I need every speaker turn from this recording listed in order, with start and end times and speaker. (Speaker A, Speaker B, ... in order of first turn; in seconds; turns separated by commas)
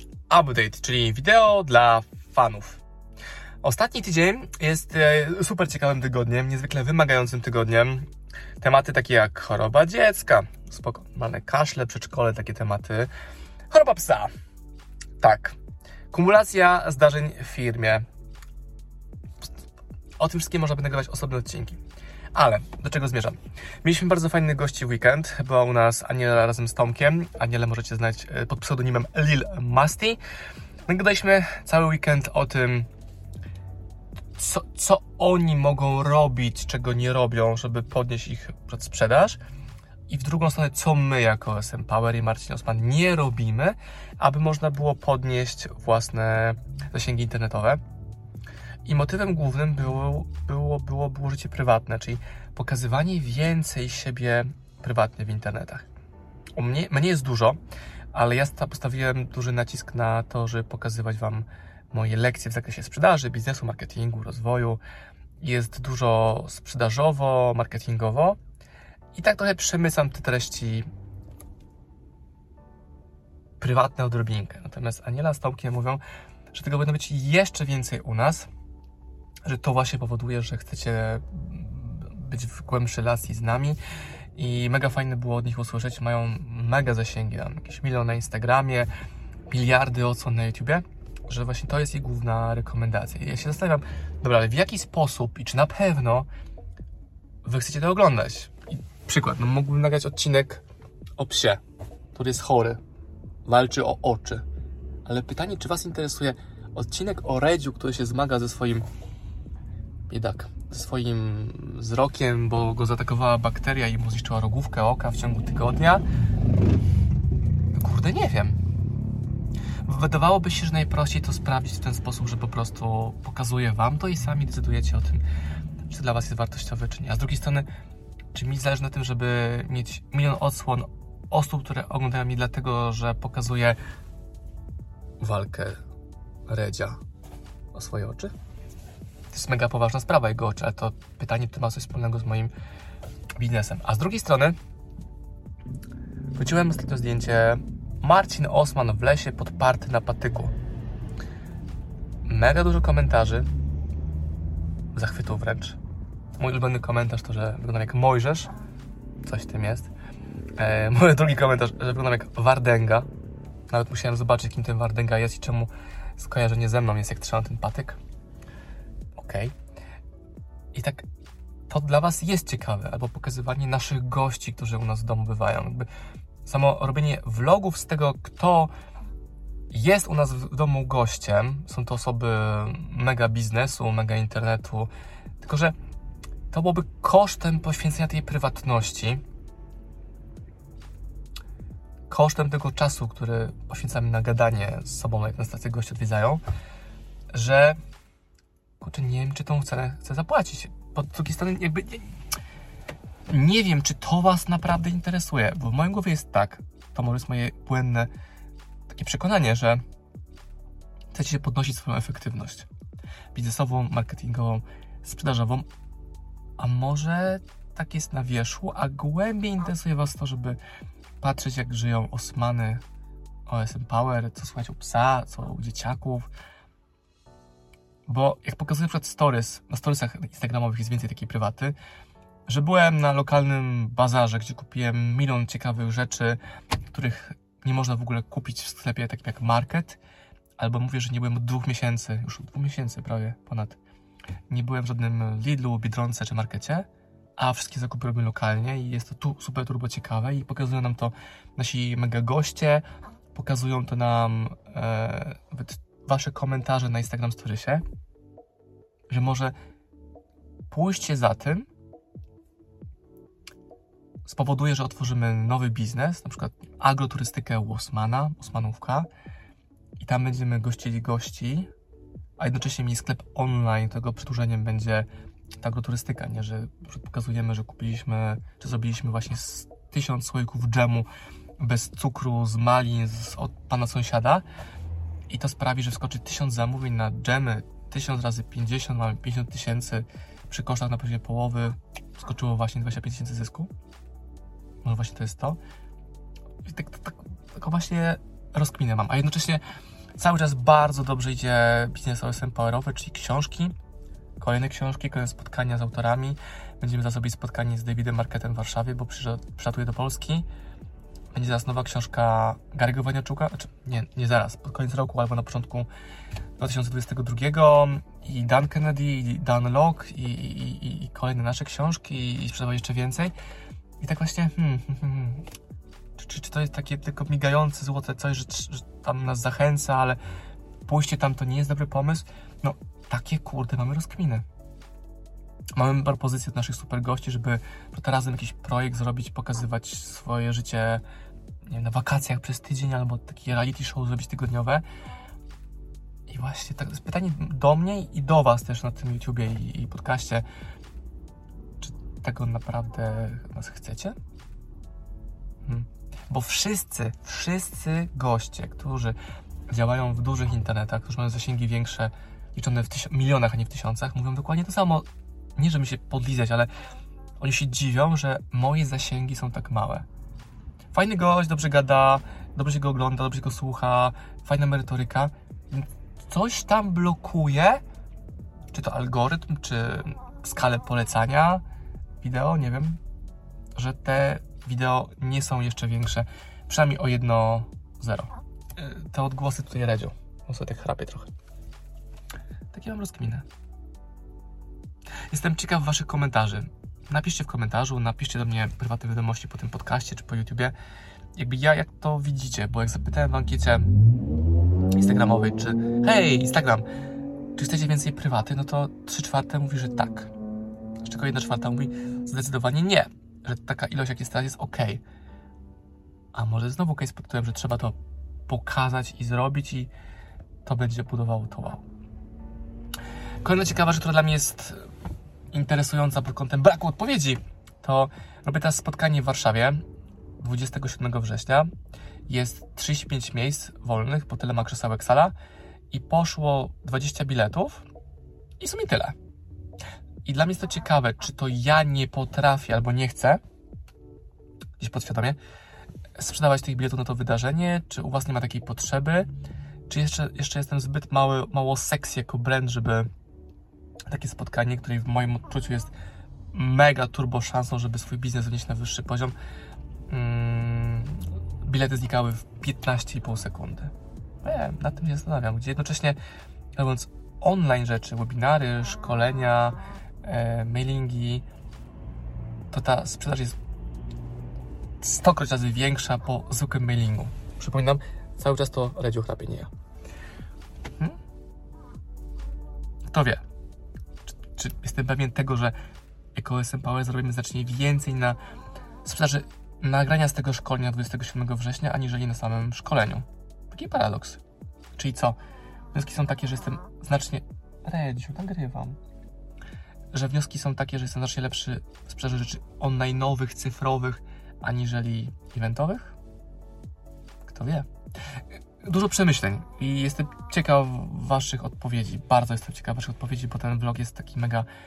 Speaker A: 0.3-2.8, Speaker A: 3.6-8.1, Speaker A: 8.6-13.1, Speaker A: 13.7-14.3, Speaker A: 15.2-15.6, Speaker A: 16.1-18.0, Speaker A: 20.2-21.8, Speaker A: 22.3-30.2, Speaker A: 30.9-32.9, Speaker A: 34.4-39.4, Speaker A: 40.1-47.8, Speaker A: 48.8-55.9, Speaker A: 56.6-57.6, Speaker A: 58.1-64.8, Speaker A: 65.4-68.4, Speaker A: 69.1-70.9, Speaker A: 73.6-76.0, Speaker A: 76.5-78.5, Speaker A: 79.5-83.8, Speaker A: 84.3-88.9, Speaker A: 89.5-96.3, Speaker A: 97.4-100.6, Speaker A: 101.2-101.6, Speaker A: 102.1-102.8, Speaker A: 103.4-104.4, Speaker A: 105.0-108.8, Speaker A: 110.1-116.0, Speaker A: 117.7-118.6, Speaker A: 119.8-125.2, Speaker A: 125.9-127.7, Speaker A: 128.3-133.8, Speaker A: 135.2-135.8, Speaker A: 136.5-137.0, Speaker A: 137.7-138.3, Speaker A: 139.3-142.5, Speaker A: 143.4-144.6, Speaker A: 146.3-150.5, Speaker A: 152.3-153.5, Speaker A: 154.9-155.8, Speaker A: 156.4-158.5, Speaker A: 159.2-159.9, Speaker A: 160.6-163.1, Speaker A: 163.7-168.0, Speaker A: 169.1-169.5, Speaker A: 170.7-171.1, Speaker A: 171.7-175.9, Speaker A: 176.4-178.7, Speaker A: 179.7-184.9, Speaker A: 185.4-185.7, Speaker A: 186.5-189.2, Speaker A: 192.1-196.4, Speaker A: 197.3-197.8, Speaker A: 198.8-202.1, Speaker A: 203.3-208.1, Speaker A: 208.9-209.8, Speaker A: 211.1-212.7, Speaker A: 213.3-215.7, Speaker A: 216.6-220.6, Speaker A: 221.2-222.8, Speaker A: 223.5-226.3, Speaker A: 228.1-231.8, Speaker A: 232.5-236.4, Speaker A: 236.9-240.0, Speaker A: 240.6-243.8, Speaker A: 244.5-257.8, Speaker A: 259.1-259.5, Speaker A: 260.7-261.7, Speaker A: 264.2-269.1, Speaker A: 270.0-271.7, Speaker A: 272.4-275.1, Speaker A: 275.6-284.4, Speaker A: 285.3-293.7, Speaker A: 294.8-295.6, Speaker A: 296.6-299.6, Speaker A: 300.2-303.7, Speaker A: 304.4-310.4, Speaker A: 311.3-315.9, Speaker A: 316.6-323.3, Speaker A: 324.0-325.4, Speaker A: 326.2-330.2, Speaker A: 330.9-334.4, Speaker A: 335.8-341.0, Speaker A: 341.7-344.8, Speaker A: 346.3-350.4, Speaker A: 351.8-354.1, Speaker A: 355.6-359.2, Speaker A: 359.7-366.7, Speaker A: 367.4-370.1, Speaker A: 370.9-377.8, Speaker A: 378.7-381.6, Speaker A: 382.2-383.0, Speaker A: 383.7-391.3, Speaker A: 392.7-393.4, Speaker A: 395.3-400.7, Speaker A: 401.3-403.9, Speaker A: 404.9-406.9, Speaker A: 407.6-410.3, Speaker A: 411.0-415.0, Speaker A: 416.3-417.9, Speaker A: 418.5-419.9, Speaker A: 420.6-421.8, Speaker A: 423.4-424.8, Speaker A: 425.5-429.8, Speaker A: 430.4-431.7, Speaker A: 432.3-435.3, Speaker A: 435.9-437.9, Speaker A: 438.6-439.1, Speaker A: 440.2-443.4, Speaker A: 444.8-445.4, Speaker A: 446.1-449.3, Speaker A: 449.9-453.1, Speaker A: 454.1-455.9, Speaker A: 456.5-459.3, Speaker A: 460.1-466.2, Speaker A: 466.8-471.4, Speaker A: 472.7-473.6, Speaker A: 475.0-479.7, Speaker A: 483.1-483.4, Speaker A: 484.5-485.7, Speaker A: 486.3-488.4, Speaker A: 489.0-494.4, Speaker A: 495.0-495.4, Speaker A: 495.9-499.0, Speaker A: 500.1-506.1, Speaker A: 507.4-507.9, Speaker A: 508.8-514.7